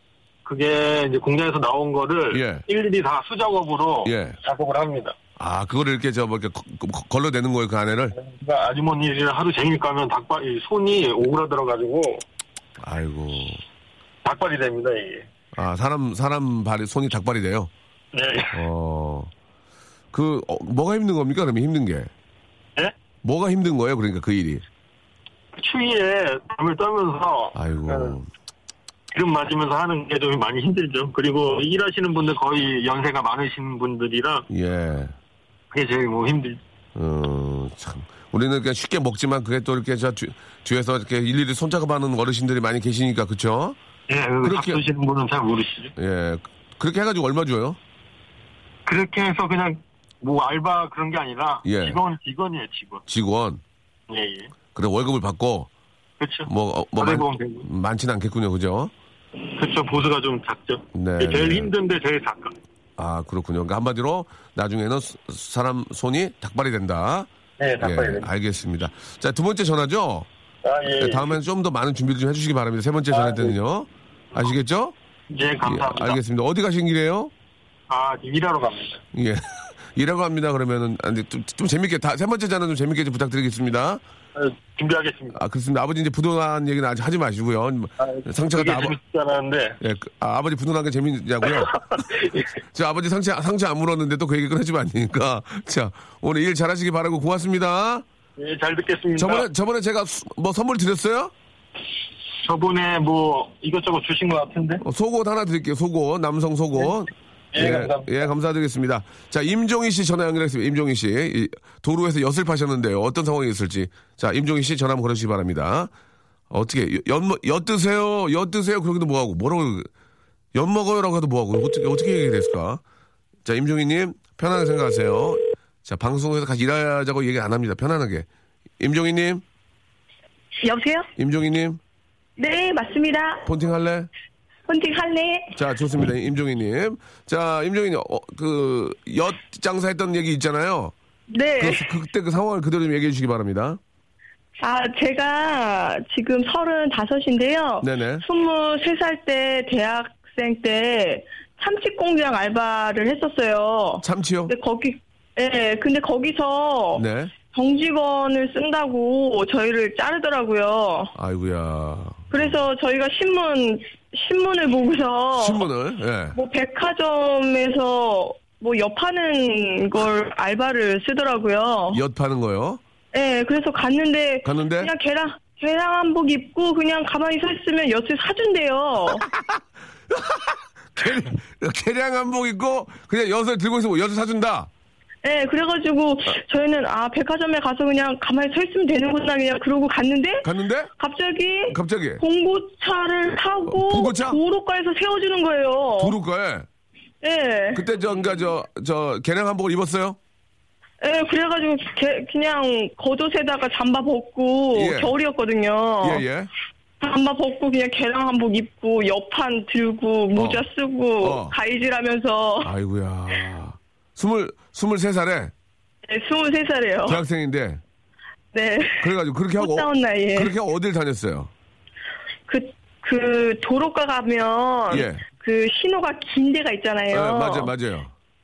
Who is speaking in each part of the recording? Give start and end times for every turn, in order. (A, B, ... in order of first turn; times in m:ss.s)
0:00.4-0:05.1 A
0:02.3-0:02.6 B
0:04.0-0:04.4 B
0:05.4-0:08.1 B
0:08.1-0:12.2 A
0:12.8-0:13.6 B
0:14.2-0:15.2 A
0:15.5-0:17.7 B
0:18.1-0:18.6 A
0:18.5-0:19.3 B
0:20.1-0:22.1 B
0:23.2-0:24.6 B
0:25.6-0:28.2 A
0:27.5-0:28.3 B
0:29.1-0:34.4 A
0:34.5-0:35.1 B
0:35.7-0:36.6 A
0:37.0-0:43.8 B
0:44.1-0:45.9 A
0:44.4-0:44.8 B
0:46.0-0:47.8 B
0:48.8-0:53.0 A
0:51.6-0:52.0 B
0:53.1-0:53.6 B
0:54.1-0:54.5 A
0:54.7-0:55.7 B
0:56.2-0:57.7 A
0:56.5-0:58.9 B
0:59.6-1:02.5 A
1:00.9-1:01.7 B
1:03.0-1:07.3 B
1:07.6-1:08.3 A
1:07.8-1:10.3 B
1:10.6-1:11.4 A
1:11.0-1:14.9 B
1:13.1-1:13.5 A
1:15.3-1:16.2 A
1:15.6-1:17.3 B
1:17.9-1:19.0 A
1:19.1-1:24.0 B
1:24.4-1:25.4 A
1:25.3-1:28.9 B
1:28.0-1:29.8 A
1:29.8-1:31.8 B
1:31.6-1:32.4 A
1:32.7-1:38.0 B
1:38.4-1:39.4 A
1:39.2-1:41.3 B
1:42.4-1:44.8 A
1:44.8-1:55.9 B
1:47.5-1:48.3 A
1:56.5-1:59.9 B
2:00.5-2:02.8 B
2:03.4-2:08.2 B
2:08.8-2:09.4 B
2:10.6-2:11.1 C
2:11.2-2:11.8 B
2:12.4-2:13.5 C
2:13.4-2:14.1 B
2:14.7-2:15.6 C
2:15.5-2:20.9 B
2:21.3-2:21.9 C
2:21.6-2:23.8 B
2:24.6-2:41.1 C
2:27.8-2:28.2 B
2:34.0-2:34.6 B
2:37.0-2:37.3 B
2:41.1-2:42.6 B
2:42.3-2:45.6 C
2:45.4-2:46.4 B
2:46.3-2:52.0 C
2:51.9-2:52.8 B
2:53.1-2:59.2 C
2:54.4-2:54.9 B
2:59.2-2:59.6 B
3:00.1-3:04.7 B
3:05.2-3:16.2 C
3:10.4-3:10.9 B
3:11.7-3:12.2 B
3:13.7-3:14.4 B
3:16.0-3:16.6 B
3:17.2-3:17.8 C
3:17.7-3:20.2 B
3:21.0-3:26.2 C
3:24.7-3:25.1 B
3:26.0-3:26.5 B
3:27.0-3:32.7 C
3:30.3-3:30.6 B
3:31.2-3:31.6 B
3:32.6-3:35.5 B
3:36.1-3:37.2 C
3:37.0-3:37.8 B
3:38.5-3:40.5 C
3:39.0-3:41.5 B
3:42.5-3:47.7 C
3:44.9-3:45.2 B
3:47.1-3:48.1 B